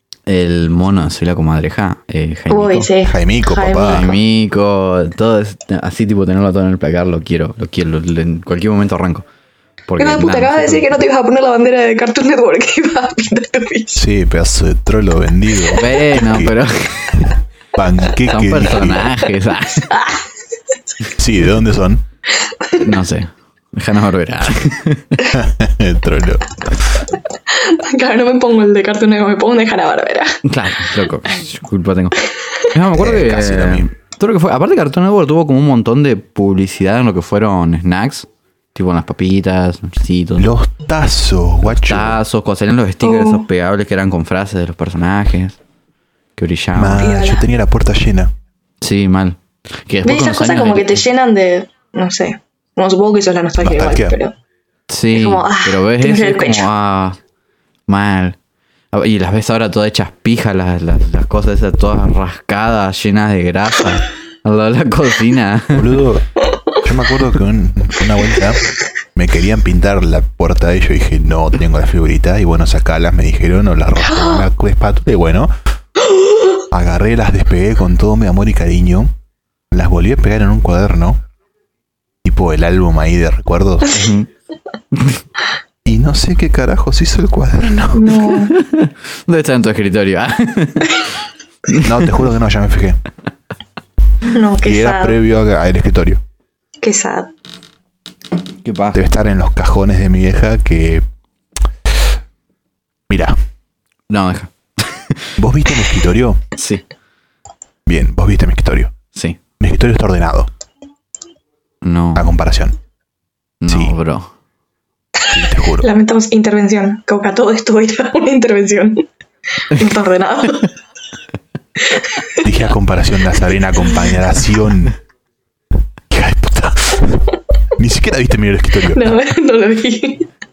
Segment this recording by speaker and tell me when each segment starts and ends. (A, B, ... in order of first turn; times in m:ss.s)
0:00.3-0:02.9 A
0:02.5-0:04.2 B
0:03.0-0:04.1 C
0:03.9-0:09.3 A
0:09.9-0:10.9 A
0:10.0-0:14.0 B
0:14.0-0:16.6 C
0:15.7-0:17.4 A
0:17.7-0:19.1 C
0:18.3-0:20.0 A
0:19.9-0:20.3 B
0:21.1-0:22.0 C
0:22.8-0:25.3 A
0:25.3-0:26.5 C
0:27.5-0:30.4 B
0:30.4-0:40.5 A
0:32.9-0:33.9 C
0:40.4-0:42.2 C
0:41.6-0:45.6 A
0:43.0-0:43.5 B
0:46.4-0:47.1 A
0:46.8-0:48.3 C
0:47.0-0:47.5 B
0:48.8-0:51.0 A
0:50.0-0:54.3 B
0:53.6-0:54.2 C
0:54.9-0:57.2 A
0:55.1-0:56.7 B
0:57.9-0:58.4 A
0:58.9-1:06.0 A
1:05.7-1:06.3 C
1:06.8-1:08.6 C
1:09.2-1:15.5 C
1:14.0-1:14.5 B
1:16.1-1:16.6 B
1:16.7-1:19.1 C
1:19.7-1:21.2 C
1:22.2-1:24.0 C
1:23.9-1:24.3 A
1:24.9-1:25.2 A
1:25.8-1:28.3 C
1:27.9-1:28.6 B
1:28.3-1:31.1 A
1:31.7-1:32.0 A
1:31.8-1:33.0 C
1:34.3-1:35.2 B
1:34.6-1:36.2 C
1:36.8-1:37.3 B
1:38.6-1:39.0 A
1:38.9-1:41.0 C
1:43.1-1:43.4 C
1:44.1-1:45.3 A
1:45.4-1:46.4 C
1:46.6-1:46.9 A
1:47.9-1:48.9 C
1:49.1-1:49.4 A
1:49.6-1:50.5 C
1:51.8-1:52.3 A
1:52.2-1:52.8 C
1:53.6-1:54.3 A
1:53.7-1:53.9 C
1:55.3-1:55.9 C
1:55.8-1:59.1 B
1:59.7-2:00.7 B
2:01.9-2:02.5 B
2:02.4-2:05.0 C
2:06.1-2:07.2 C
2:07.8-2:09.2 C
2:08.9-2:10.3 B